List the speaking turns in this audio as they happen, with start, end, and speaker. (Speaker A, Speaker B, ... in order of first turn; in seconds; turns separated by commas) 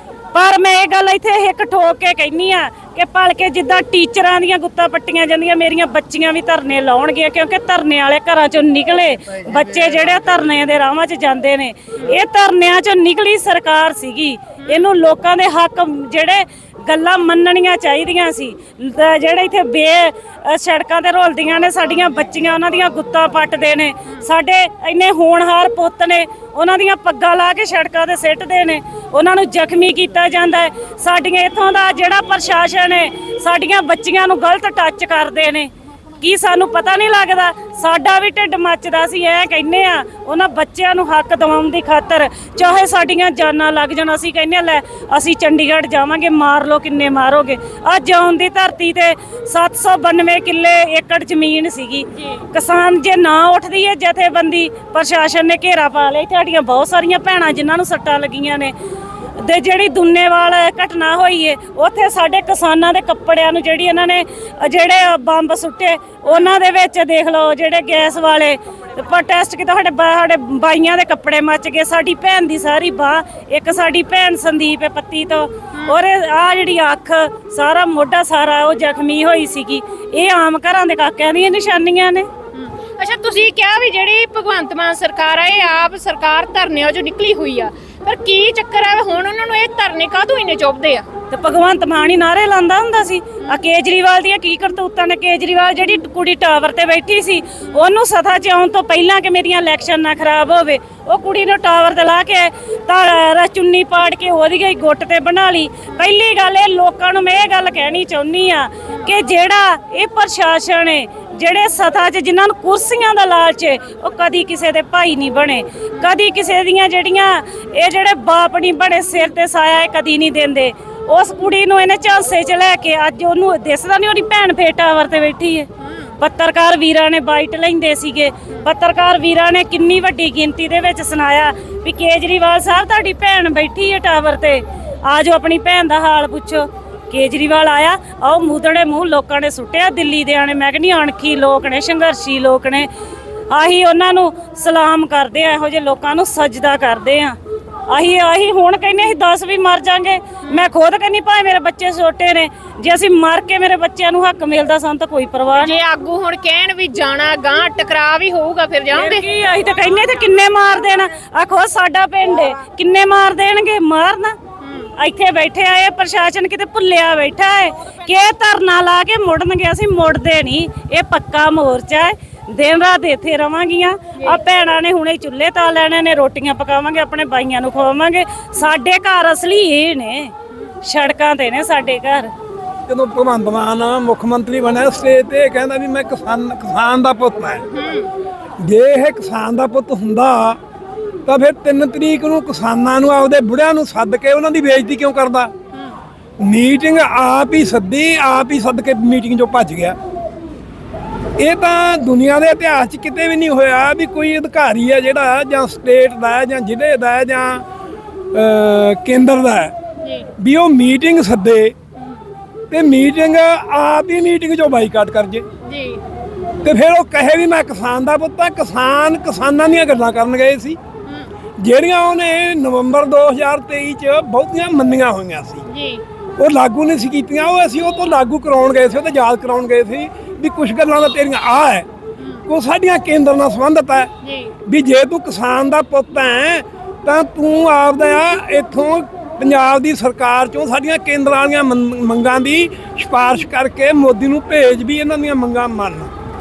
Speaker A: 0.3-58.7, Speaker B: 14.6-14.9, Speaker B: 52.2-52.4, Speaker A: 59.4-82.3, Speaker B: 66.3-66.5, Speaker B: 82.5-91.0, Speaker A: 91.3-125.7, Speaker B: 125.8-126.2, Speaker A: 126.2-142.9, Speaker A: 143.5-147.4, Speaker A: 147.9-155.7, Speaker B: 150.4-150.7, Speaker B: 155.6-159.2, Speaker A: 158.9-164.3, Speaker B: 164.6-164.9, Speaker A: 165.0-182.3, Speaker B: 174.1-174.4, Speaker C: 182.9-187.6, Speaker B: 187.6-188.1, Speaker C: 188.6-190.6, Speaker C: 191.2-195.5, Speaker B: 195.7-196.0, Speaker C: 196.4-200.0, Speaker C: 201.4-207.6, Speaker C: 208.3-209.7, Speaker B: 210.0-210.3, Speaker C: 210.4-211.7, Speaker B: 212.0-212.2, Speaker C: 212.7-215.4, Speaker B: 215.6-216.0, Speaker C: 216.6-220.8, Speaker B: 221.1-221.3, Speaker C: 221.6-225.6, Speaker B: 225.7-226.0, Speaker C: 226.4-231.9, Speaker B: 232.2-232.5, Speaker C: 232.5-234.1, Speaker B: 234.2-234.5, Speaker C: 234.7-246.1